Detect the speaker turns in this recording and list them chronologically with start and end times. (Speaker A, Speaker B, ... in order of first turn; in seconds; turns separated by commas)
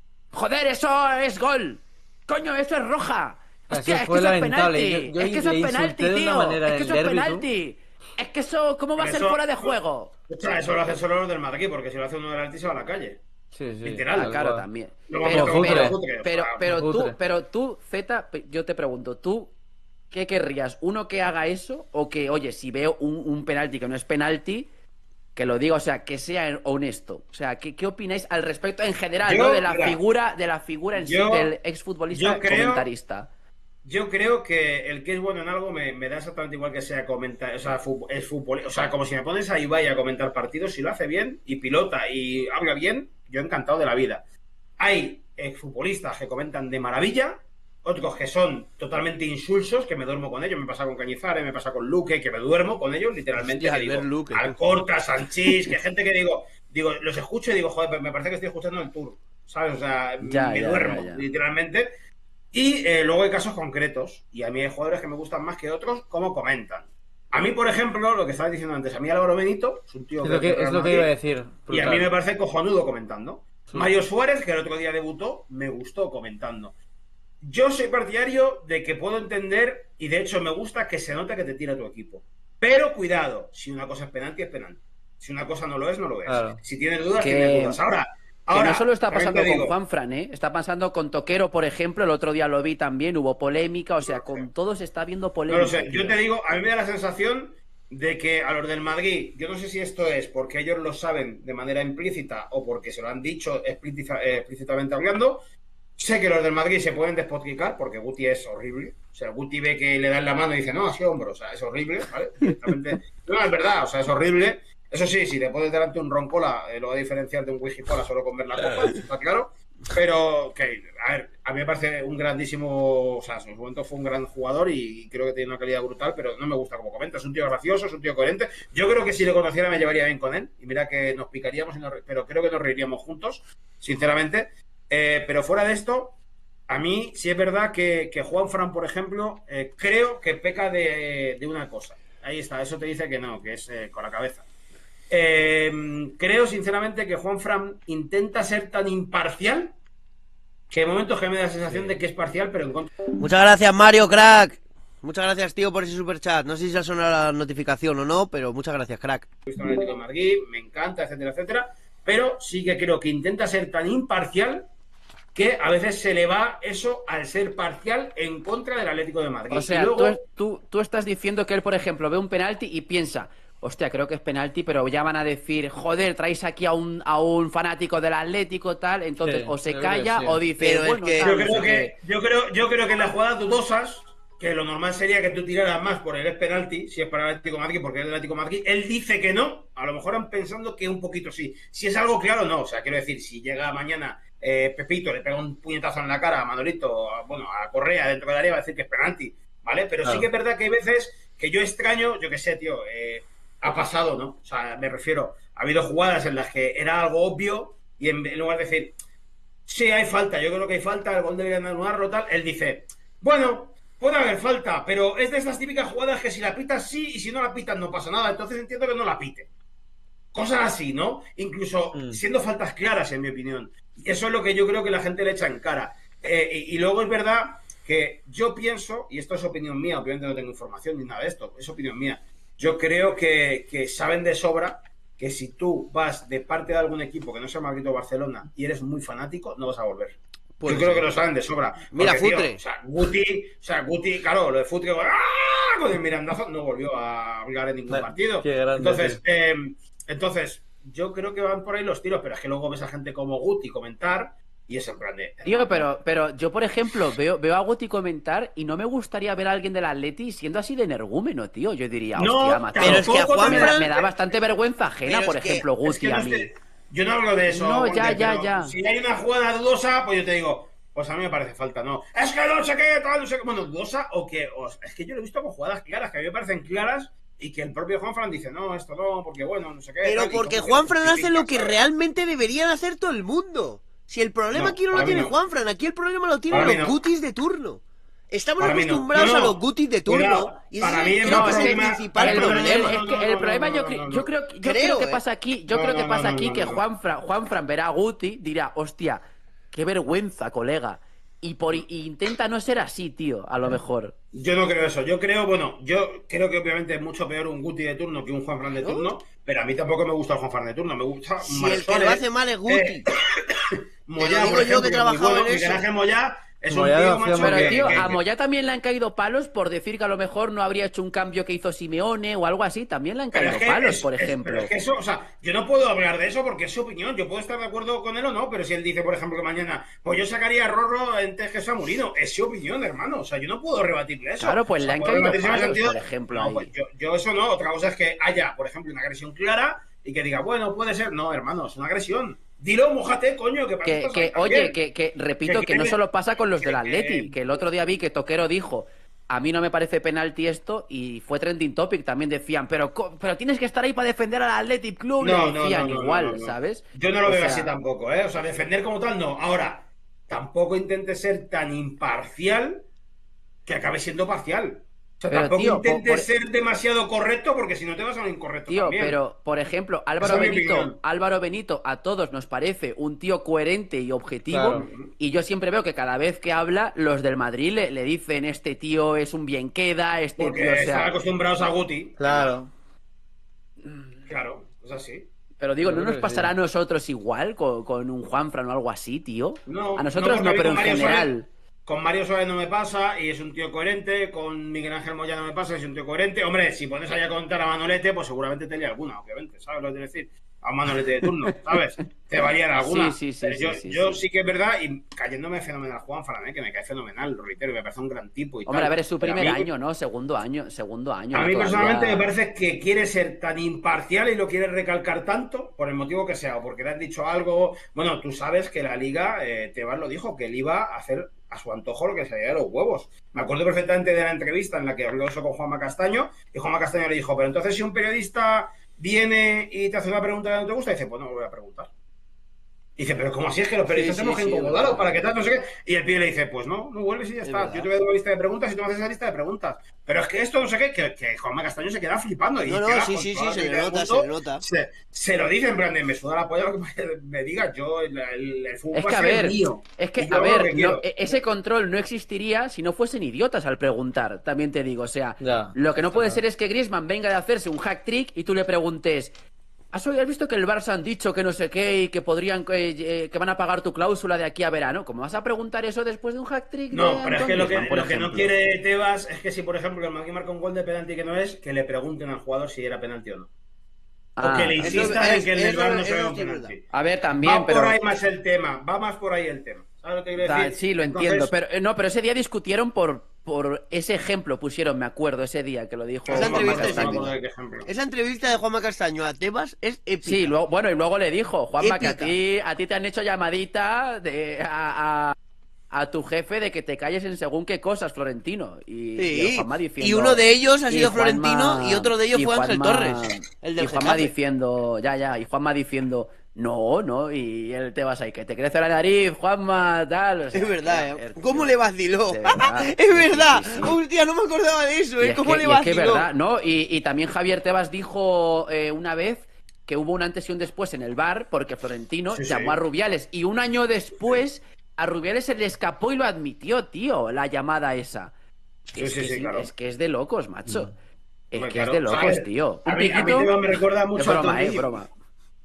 Speaker A: 0.3-10.1, Speaker B: 3.7-7.5, Speaker C: 9.0-9.7, Speaker C: 10.3-13.2, Speaker B: 13.5-14.7, Speaker C: 13.8-14.3, Speaker A: 14.2-19.5, Speaker C: 15.1-16.8, Speaker B: 15.2-16.0, Speaker B: 16.6-17.1, Speaker A: 20.1-24.7, Speaker A: 25.4-33.3, Speaker C: 29.2-30.0, Speaker C: 31.0-31.5, Speaker C: 32.1-32.9, Speaker C: 33.8-44.2, Speaker C: 44.8-61.9, Speaker D: 53.4-54.5, Speaker A: 60.2-61.2, Speaker C: 62.5-71.1, Speaker B: 70.2-72.1, Speaker C: 71.7-76.7, Speaker C: 77.4-89.8, Speaker B: 86.2-86.6, Speaker A: 87.2-87.8, Speaker A: 88.5-96.2, Speaker C: 94.1-94.4, Speaker C: 95.5-105.4, Speaker C: 106.0-144.5, Speaker C: 145.1-149.7, Speaker C: 150.7-153.0, Speaker B: 151.7-152.0, Speaker D: 153.2-159.3, Speaker C: 159.4-164.7, Speaker C: 165.3-170.2, Speaker A: 169.5-181.9, Speaker B: 179.2-180.4, Speaker D: 180.6-181.3, Speaker C: 181.2-208.9, Speaker B: 200.0-200.3, Speaker C: 209.7-219.5, Speaker C: 220.3-255.9, Speaker B: 221.9-222.2, Speaker D: 240.6-241.1, Speaker D: 241.9-242.6, Speaker B: 247.9-249.2, Speaker A: 255.4-266.5, Speaker C: 262.2-264.1, Speaker D: 262.8-263.9, Speaker D: 265.1-265.7, Speaker C: 265.8-281.8, Speaker A: 267.5-268.7, Speaker D: 280.0-293.0, Speaker C: 284.5-285.3, Speaker C: 286.5-287.0, Speaker C: 288.6-294.3, Speaker A: 291.2-304.1, Speaker D: 294.6-295.2, Speaker C: 295.7-296.8, Speaker C: 304.3-318.2, Speaker D: 308.6-309.1, Speaker D: 311.4-313.1, Speaker D: 314.2-315.8, Speaker B: 316.7-318.0, Speaker A: 317.4-324.7, Speaker C: 323.3-344.8, Speaker A: 334.4-336.7, Speaker A: 343.8-357.7, Speaker C: 345.4-347.4, Speaker C: 355.2-362.8, Speaker C: 363.6-369.2, Speaker A: 365.3-366.3, Speaker A: 368.7-381.1, Speaker C: 370.2-371.0, Speaker B: 374.5-374.9, Speaker C: 374.7-375.1, Speaker C: 380.4-382.5, Speaker B: 382.2-382.7, Speaker C: 384.2-385.3, Speaker A: 385.6-391.5, Speaker B: 385.8-386.5, Speaker C: 389.7-391.3, Speaker C: 391.9-409.7, Speaker A: 402.7-404.2, Speaker A: 408.6-412.3, Speaker C: 411.3-431.9, Speaker C: 433.0-451.3, Speaker D: 433.9-435.1, Speaker D: 437.4-437.9, Speaker D: 442.6-444.6, Speaker A: 448.9-459.3, Speaker B: 455.4-456.4, Speaker A: 459.9-468.5, Speaker C: 466.9-473.5, Speaker A: 474.4-475.1, Speaker C: 474.4-476.9, Speaker D: 474.8-476.7, Speaker A: 476.9-478.0, Speaker C: 477.4-481.5, Speaker A: 480.4-487.3, Speaker C: 486.3-487.9, Speaker D: 486.3-487.3, Speaker D: 487.8-490.5, Speaker A: 490.2-495.3, Speaker D: 491.8-492.3, Speaker A: 495.9-511.7, Speaker D: 499.2-504.3, Speaker D: 510.5-516.3, Speaker A: 512.3-514.0, Speaker A: 515.2-528.3, Speaker C: 522.3-522.8, Speaker A: 528.9-530.9, Speaker C: 529.0-529.7, Speaker A: 531.5-533.5, Speaker C: 531.5-535.0, Speaker A: 534.1-535.1